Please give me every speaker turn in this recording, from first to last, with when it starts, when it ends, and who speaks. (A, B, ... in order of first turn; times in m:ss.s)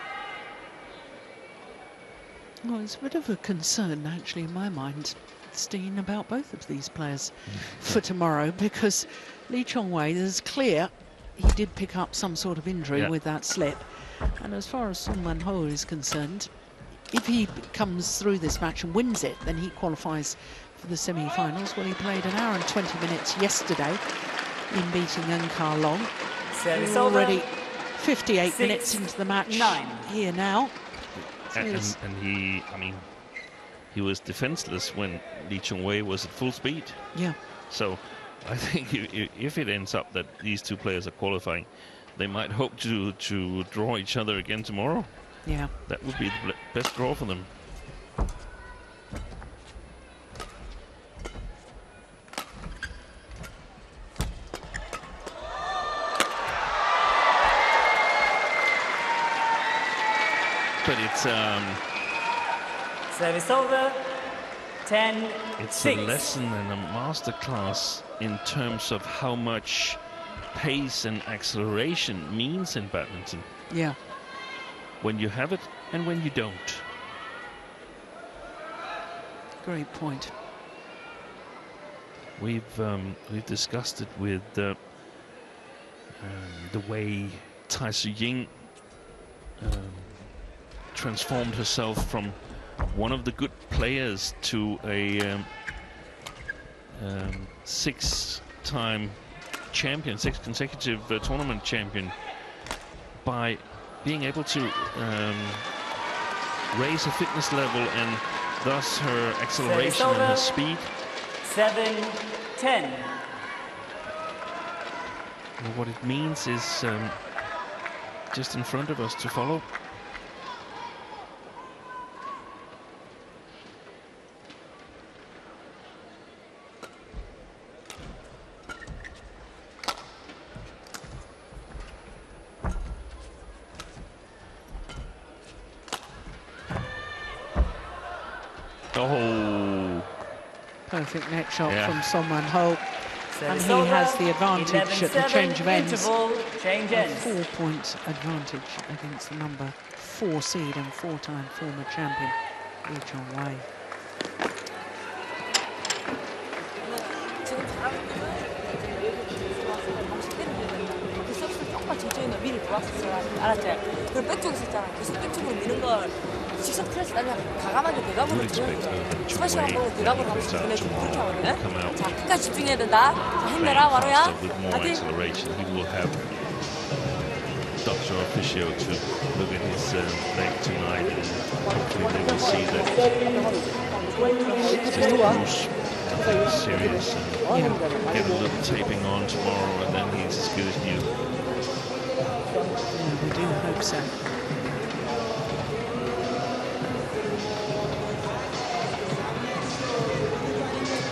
0:02.6-0:16.5 A
0:07.5-0:08.0 B
0:17.1-0:32.0 A
0:26.5-0:27.5 C
0:28.4-0:30.0 C
0:31.1-0:47.5 B
0:45.4-0:45.7 A
1:00.8-1:01.8 B
1:03.1-1:04.2 C
1:04.8-1:06.2 C
1:05.6-1:13.5 B
1:13.7-1:14.0 A
1:15.0-1:16.9 B
1:19.6-1:20.3 A
1:22.4-1:25.4 B
1:26.2-1:28.9 B
1:29.6-1:35.6 B
1:36.9-1:42.6 B
1:43.2-1:45.8 B
1:46.7-1:50.9 B
1:49.6-1:50.6 C
1:51.4-1:53.2 C
1:55.6-1:57.3 B
1:58.3-1:59.7 B
2:18.9-2:20.1 B
2:20.9-2:26.1 A
2:21.6-2:22.0 B
2:23.3-2:27.3 C
2:26.9-2:33.7 A
2:36.8-2:55.0 D
2:48.2-2:52.1 B
2:53.4-2:56.9 B
2:57.8-3:03.2 B
3:04.2-3:04.8 C
3:04.8-3:11.2 B
3:07.5-3:07.8 A
3:12.9-3:14.5 A